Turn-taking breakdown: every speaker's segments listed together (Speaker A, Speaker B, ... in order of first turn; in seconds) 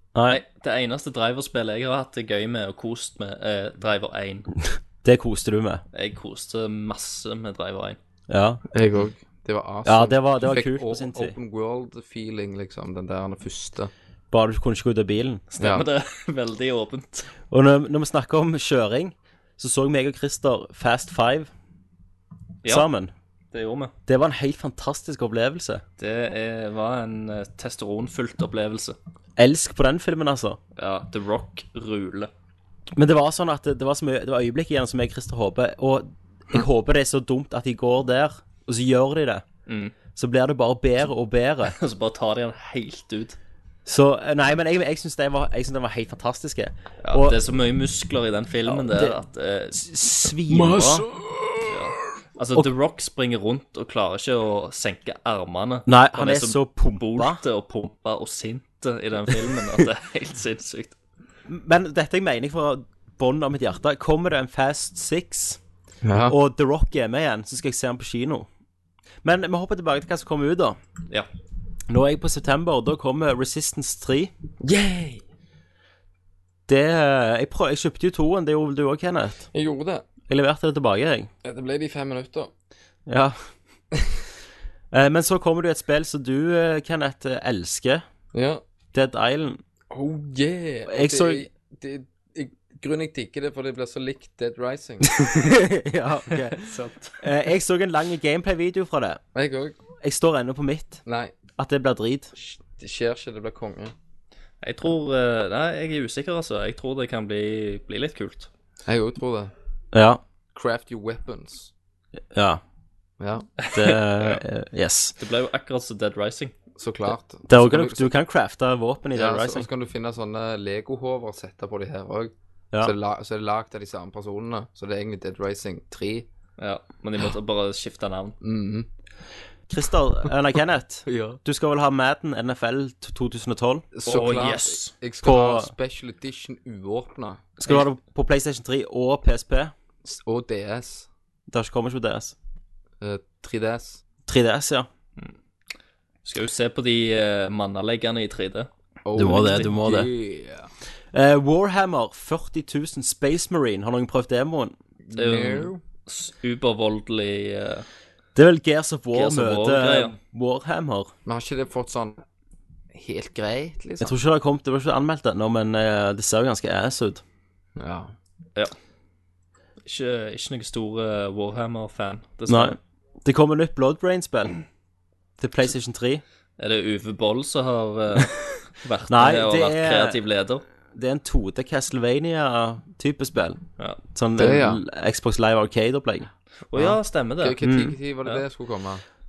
Speaker A: 0.1-0.4, 5.0-5.8, 8.3-8.6, 9.8-11.3, 14.3-15.4, 17.5-21.5, 22.6-23.1, 24.1-25.8, 29.4-30.6, 33.0-39.4, 40.1-41.7, 43.9-47.4, 48.6-49.2, 49.7-51.1, 55.9-57.4, 61.5-65.6, 66.2-68.5, 69.2-70.8, 71.9-74.3, 76.7-79.5, 80.3-81.3, 83.1-83.4, 84.9-88.0, 88.9-89.6, 90.9-91.5, 95.1-96.6, 97.2-99.2, 100.0-101.0, 101.6-102.3, 109.9-110.2, 112.3-112.6, 113.7-115.1, 117.5-119.7, 129.7-133.9, 135.2-135.7, 137.6-139.7, 141.5-142.3, 144.3-144.9, 149.1-150.1, 151.1-154.7, 158.3-161.1, 164.0-167.2, 172.5-174.6, 175.4-176.2, 179.1-180.2, 180.9-183.6, 184.1-186.3, 187.6-188.0
Speaker B: 0.3-4.5, 5.9-8.0, 15.5-17.3, 23.5-23.9, 26.0-29.0, 30.8-32.3, 39.7-39.9, 41.6-43.4, 47.0-49.8, 51.6-61.0, 96.5-97.2, 104.6-108.5, 113.6-114.4, 115.2-116.5, 126.6-128.3, 134.1-134.9, 146.2-148.7, 149.4-149.7, 155.1-157.8, 159.1-160.2, 169.8-172.8, 176.6-180.6, 186.7-187.6
Speaker C: 8.7-13.9, 50.5-50.9, 66.0-66.3, 74.6-75.2, 79.5-80.0, 81.4-82.5, 88.3-88.6, 89.9-95.3, 99.3-99.8, 101.0-101.3, 102.3-103.9, 108.8-109.5, 110.5-111.7, 113.2-113.5, 116.8-118.1, 119.1-126.2, 128.4-128.9, 131.1-131.4, 133.9-137.5, 140.0-141.1, 143.0-144.0, 149.0-150.7, 155.1-155.8, 161.2-162.2, 162.9-164.2, 167.8-168.1, 184.3-184.8, 186.7-189.0